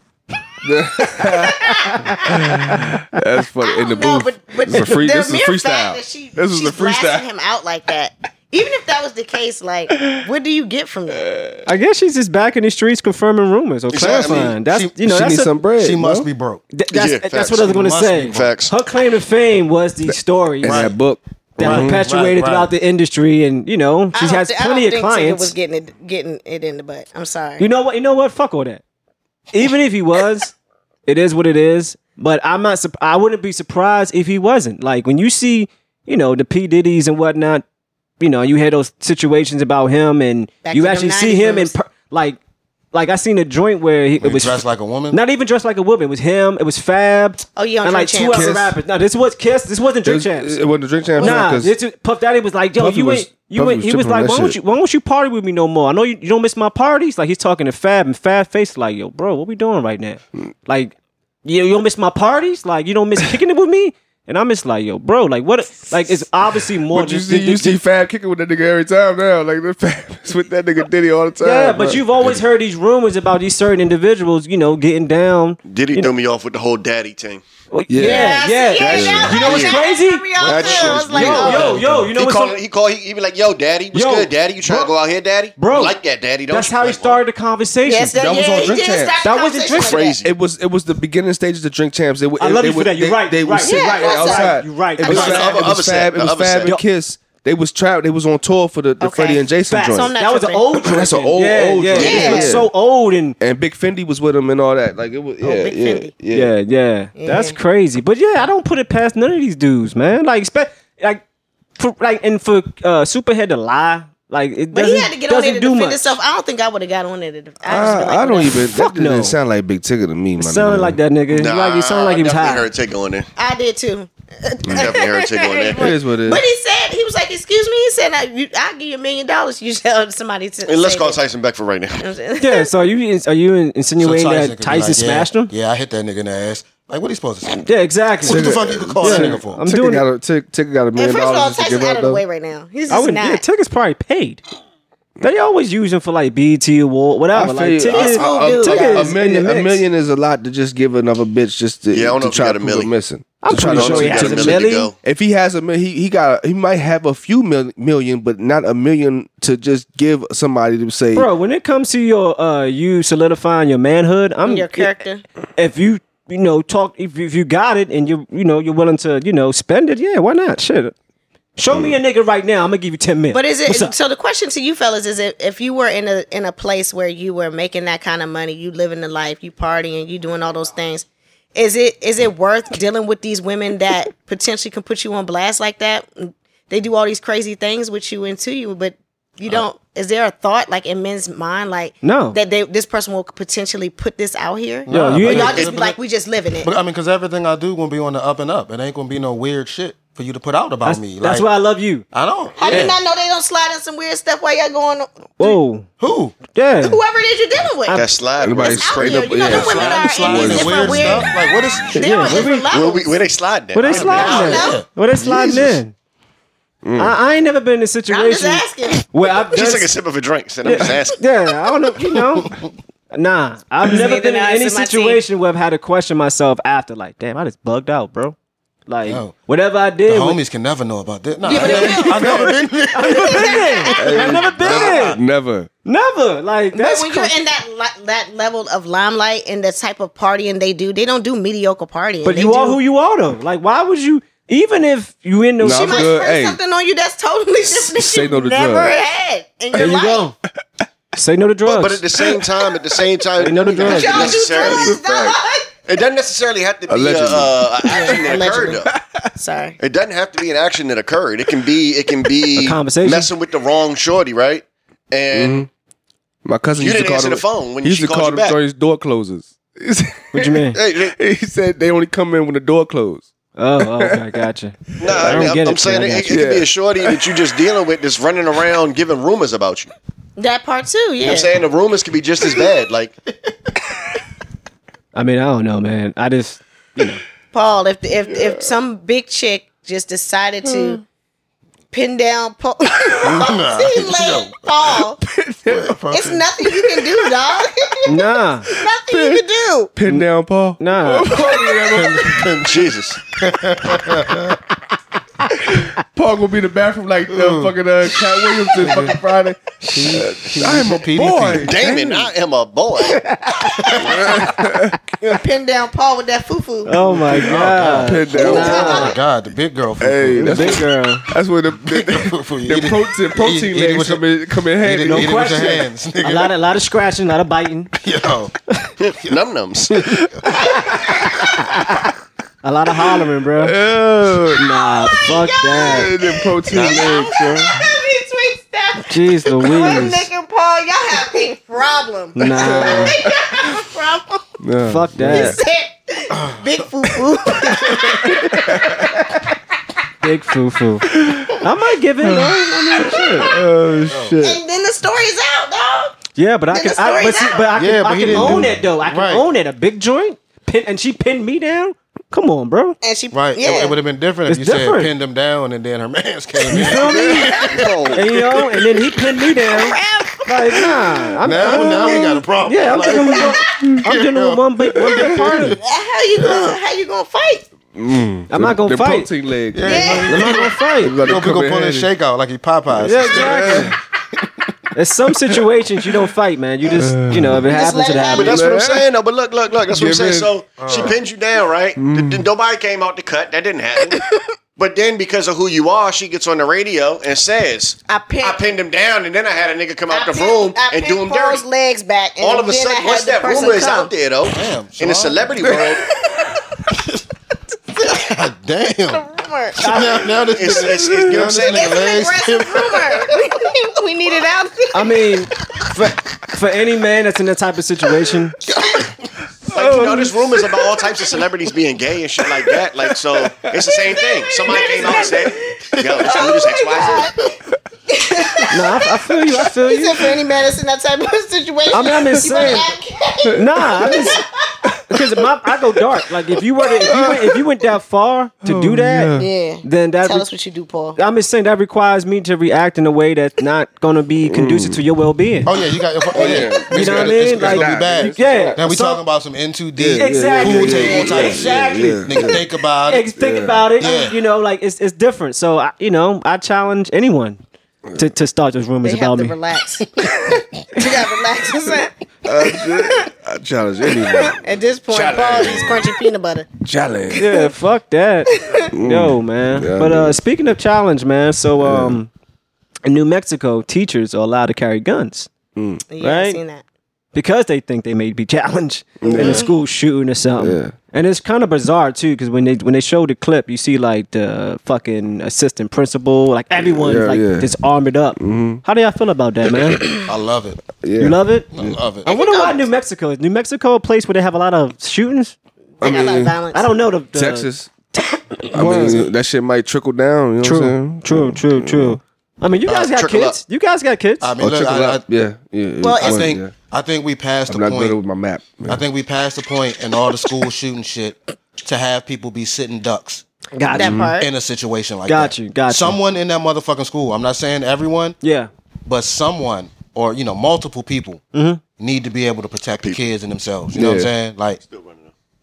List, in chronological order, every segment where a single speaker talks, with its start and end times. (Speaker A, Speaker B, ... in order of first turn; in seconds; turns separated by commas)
Speaker A: 0.6-7.3, Speaker B: 1.2-2.3, Speaker B: 3.6-11.3, Speaker A: 11.1-11.6, Speaker C: 11.7-15.5, Speaker D: 13.9-14.5, Speaker E: 14.3-15.0, Speaker A: 15.0-16.3, Speaker E: 15.7-16.6, Speaker C: 16.7-20.9, Speaker D: 16.9-17.7, Speaker E: 17.5-18.5, Speaker D: 18.3-18.7, Speaker A: 20.1-22.0, Speaker E: 20.6-20.9, Speaker C: 21.6-25.5, Speaker E: 21.6-22.7, Speaker B: 24.1-27.7, Speaker C: 27.6-28.8, Speaker C: 29.5-30.5, Speaker C: 31.1-37.6, Speaker C: 38.2-42.4, Speaker B: 40.6-41.7, Speaker C: 42.9-50.6, Speaker E: 44.2-45.2, Speaker B: 47.6-48.6, Speaker A: 48.3-48.7, Speaker A: 50.0-51.7, Speaker C: 51.2-60.9, Speaker A: 52.8-54.6, Speaker C: 61.5-67.8, Speaker A: 66.9-72.4, Speaker C: 71.4-76.1, Speaker D: 75.7-77.4, Speaker C: 77.7-82.5, Speaker A: 77.9-79.6, Speaker B: 78.0-81.8, Speaker D: 79.4-79.7, Speaker E: 80.4-81.9, Speaker A: 80.4-82.0, Speaker D: 82.1-87.2, Speaker C: 83.9-84.9, Speaker C: 85.6-86.0, Speaker C: 86.5-88.6, Speaker B: 87.8-90.2, Speaker A: 88.2-89.2, Speaker C: 89.2-90.1, Speaker D: 89.8-90.3, Speaker A: 90.2-100.1, Speaker C: 92.4-95.4, Speaker B: 93.6-95.5, Speaker D: 95.1-96.7, Speaker B: 99.0-100.8, Speaker C: 99.7-103.4, Speaker A: 100.8-102.7, Speaker B: 102.0-102.6, Speaker A: 103.4-106.5, Speaker B: 105.4-106.1, Speaker C: 106.3-111.2, Speaker B: 107.2-107.6, Speaker C: 111.8-116.2, Speaker B: 114.7-118.6, Speaker A: 117.7-121.0, Speaker C: 118.8-119.4, Speaker C: 120.4-122.7, Speaker D: 121.3-123.3, Speaker B: 123.4-131.2, Speaker A: 124.7-125.0, Speaker D: 124.7-125.9, Speaker A: 125.8-126.4, Speaker D: 130.7-132.1, Speaker B: 132.0-132.7, Speaker C: 132.4-135.5, Speaker E: 134.0-137.6, Speaker C: 137.6-140.1, Speaker E: 138.2-139.6, Speaker A: 138.2-142.2, Speaker B: 141.0-143.4, Speaker C: 142.9-144.4, Speaker C: 145.2-149.8, Speaker A: 147.3-161.3, Speaker B: 147.9-149.2, Speaker D: 151.9-152.9, Speaker C: 153.4-154.9, Speaker D: 153.6-155.0, Speaker C: 161.1-164.9, Speaker B: 164.4-165.2, Speaker C: 165.6-170.9, Speaker C: 171.6-173.9, Speaker A: 171.7-171.9, Speaker B: 173.3-196.7, Speaker C: 192.0-192.4, Speaker E: 194.9-196.0, Speaker C: 194.9-195.7, Speaker E: 196.6-201.5, Speaker C: 200.8-202.1, Speaker E: 202.1-203.0, Speaker B: 202.6-205.6, Speaker C: 202.7-202.9, Speaker C: 205.4-205.9, Speaker E: 206.0-206.4, Speaker C: 206.5-207.0, Speaker B: 206.8-208.0, Speaker D: 207.9-209.7, Speaker A: 208.4-211.3, Speaker B: 208.6-211.4, Speaker E: 209.4-212.3, Speaker B: 211.9-213.2, Speaker C: 212.0-212.7, Speaker D: 212.7-214.6, Speaker C: 213.7-215.9, Speaker E: 213.8-215.8, Speaker B: 213.9-214.8, Speaker A: 216.8-217.2, Speaker C: 217.0-219.9, Speaker B: 218.1-219.0, Speaker D: 219.5-221.2, Speaker C: 220.7-222.6, Speaker E: 222.3-222.7, Speaker C: 223.1-228.4, Speaker B: 223.8-225.2, Speaker C: 228.9-230.4, Speaker E: 229.1-229.3, Speaker E: 230.1-233.6, Speaker B: 231.4-235.2, Speaker C: 231.5-235.2, Speaker A: 234.0-235.7, Speaker E: 234.6-235.1, Speaker C: 235.8-237.3, Speaker B: 236.7-242.8, Speaker C: 242.2-246.1, Speaker A: 245.6-246.6, Speaker B: 245.6-250.3, Speaker A: 247.7-248.9, Speaker C: 249.8-250.3, Speaker C: 251.2-252.0, Speaker D: 251.7-255.0, Speaker C: 253.4-254.4, Speaker B: 253.8-255.7, Speaker A: 254.6-255.4, Speaker D: 255.9-258.9, Speaker A: 256.9-258.3, Speaker B: 257.9-258.9, Speaker A: 258.9-259.3, Speaker B: 259.4-259.8, Speaker D: 259.8-265.7, Speaker C: 262.6-263.3, Speaker A: 265.3-265.7, Speaker A: 266.4-274.4, Speaker D: 266.8-268.6, Speaker C: 270.3-270.8, Speaker D: 270.8-271.2, Speaker C: 273.6-276.4, Speaker D: 275.0-279.9, Speaker A: 275.1-275.4, Speaker A: 276.3-277.4, Speaker B: 280.4-281.5, Speaker D: 281.2-283.1, Speaker C: 285.1-287.2, Speaker B: 287.5-291.0, Speaker A: 288.3-288.7, Speaker B: 291.9-295.2, Speaker E: 293.2-294.7, Speaker A: 295.3-295.9, Speaker E: 295.7-296.4, Speaker B: 296.1-299.9, Speaker C: 298.1-298.7, Speaker A: 298.9-299.4, Speaker A: 299.9-302.6, Speaker C: 300.8-301.3, Speaker E: 301.9-302.8, Speaker D: 302.6-303.2, Speaker E: 303.4-304.6, Speaker A: 305.7-312.3, Speaker E: 307.3-307.7, Speaker E: 308.8-309.1, Speaker C: 309.8-310.2, Speaker E: 309.9-311.7, Speaker D: 311.6-313.2, Speaker E: 313.9-314.2, Speaker A: 314.0-315.0, Speaker B: 315.2-317.1, Speaker C: 316.9-319.2, Speaker E: 317.1-320.8, Speaker A: 318.0-319.0, Speaker B: 318.4-319.2, Speaker A: 320.0-325.4, Speaker C: 320.4-321.3, Speaker E: 321.9-324.2, Speaker E: 324.8-326.5, Speaker C: 325.0-327.9, Speaker E: 328.0-328.5, Speaker D: 329.0-330.1, Speaker B: 330.7-331.1, Speaker C: 332.6-333.8, Speaker A: 333.6-334.6, Speaker C: 334.6-336.1, Speaker B: 334.8-344.5, Speaker A: 335.8-337.7, Speaker E: 336.7-337.2, Speaker C: 339.1-340.2, Speaker C: 342.4-343.1, Speaker A: 342.5-343.6, Speaker A: 344.6-345.6, Speaker C: 344.9-345.6, Speaker B: 345.3-349.4, Speaker E: 346.3-346.9, Speaker A: 348.2-349.2, Speaker C: 350.2-351.1, Speaker A: 351.1-351.6, Speaker C: 351.6-353.5, Speaker A: 352.2-354.6, Speaker E: 354.1-354.4, Speaker B: 354.4-356.2, Speaker C: 356.4-363.0, Speaker B: 356.7-357.7, Speaker E: 357.8-359.4, Speaker A: 358.3-358.7, Speaker B: 363.0-364.0, Speaker E: 363.3-368.8, Speaker C: 364.5-365.1, Speaker C: 366.7-367.5, Speaker C: 368.1-375.8, Speaker B: 369.7-370.5, Speaker E: 371.4-374.6, Speaker B: 371.9-372.3, Speaker B: 373.1-373.4, Speaker A: 375.1-375.6, Speaker E: 375.2-375.7, Speaker B: 375.8-377.7, Speaker E: 376.4-376.8, Speaker A: 377.9-380.2, Speaker C: 378.5-379.3, Speaker E: 379.7-384.0, Speaker B: 379.8-380.6, Speaker C: 380.3-381.2, Speaker A: 381.0-382.1, Speaker C: 383.0-383.9, Speaker A: 383.1-384.0, Speaker C: 384.9-388.6, Speaker A: 386.9-387.6, Speaker B: 387.7-388.7, Speaker D: 388.3-394.2, Speaker A: 388.4-389.1, Speaker A: 389.9-390.5, Speaker E: 390.8-391.2, Speaker A: 392.0-392.5, Speaker D: 394.8-401.6, Speaker B: 398.1-398.6, Speaker B: 400.1-404.1, Speaker D: 402.4-406.1, Speaker E: 404.5-405.9, Speaker B: 407.9-408.3, Speaker E: 408.1-409.2, Speaker B: 409.1-410.1, Speaker C: 409.8-410.1, Speaker E: 409.8-413.3, Speaker D: 410.5-412.1, Speaker A: 410.9-411.5, Speaker B: 411.6-415.2, Speaker C: 414.9-418.6, Speaker E: 418.7-419.1, Speaker D: 419.7-427.3, Speaker B: 424.6-425.6, Speaker E: 426.0-426.5, Speaker B: 426.2-427.5, Speaker B: 428.1-429.1, Speaker C: 428.7-430.2, Speaker B: 429.7-434.7, Speaker C: 431.9-432.9, Speaker C: 433.6-434.4, Speaker C: 435.1-440.5, Speaker A: 437.0-437.6, Speaker A: 438.6-439.5, Speaker B: 439.4-441.2, Speaker C: 441.2-445.7, Speaker A: 444.4-445.0, Speaker E: 445.6-453.3, Speaker A: 446.3-448.8, Speaker C: 446.7-449.2, Speaker A: 450.0-452.7, Speaker C: 450.2-452.2, Speaker B: 450.9-452.1, Speaker C: 453.1-457.6, Speaker A: 453.4-453.9, Speaker E: 454.0-454.4, Speaker C: 458.2-459.6, Speaker B: 459.0-462.1, Speaker A: 462.4-464.6, Speaker B: 464.2-466.7, Speaker A: 465.1-466.1, Speaker A: 466.9-467.4, Speaker C: 467.4-472.3, Speaker B: 468.6-468.9, Speaker A: 468.9-470.4, Speaker A: 471.8-472.2, Speaker C: 473.1-475.5, Speaker A: 475.8-476.0, Speaker B: 476.1-476.8, Speaker C: 476.2-476.6, Speaker C: 477.3-490.1, Speaker A: 479.2-479.6, Speaker B: 479.3-479.7, Speaker A: 480.6-480.9, Speaker A: 486.8-487.7, Speaker A: 488.4-488.8, Speaker E: 490.3-490.8, Speaker A: 491.0-492.0, Speaker C: 491.2-491.7, Speaker E: 491.7-492.3, Speaker B: 492.2-492.9, Speaker C: 492.2-495.6, Speaker B: 496.0-496.9, Speaker A: 496.0-496.6, Speaker C: 496.7-497.7, Speaker A: 497.3-497.9, Speaker A: 498.7-502.2, Speaker E: 498.8-499.2, Speaker C: 500.6-504.5, Speaker D: 502.9-503.6, Speaker E: 504.4-505.2, Speaker A: 504.6-506.7, Speaker B: 506.0-506.5, Speaker E: 506.2-508.2, Speaker A: 507.7-509.0, Speaker E: 508.9-513.4, Speaker C: 513.7-514.2, Speaker B: 513.9-514.5, Speaker A: 514.0-514.3, Speaker E: 514.4-518.4, Speaker C: 515.3-516.2, Speaker C: 518.4-518.7, Speaker E: 519.1-521.4, Speaker C: 521.5-521.8, Speaker E: 522.0-524.8, Speaker A: 523.9-524.3, Speaker D: 524.8-525.3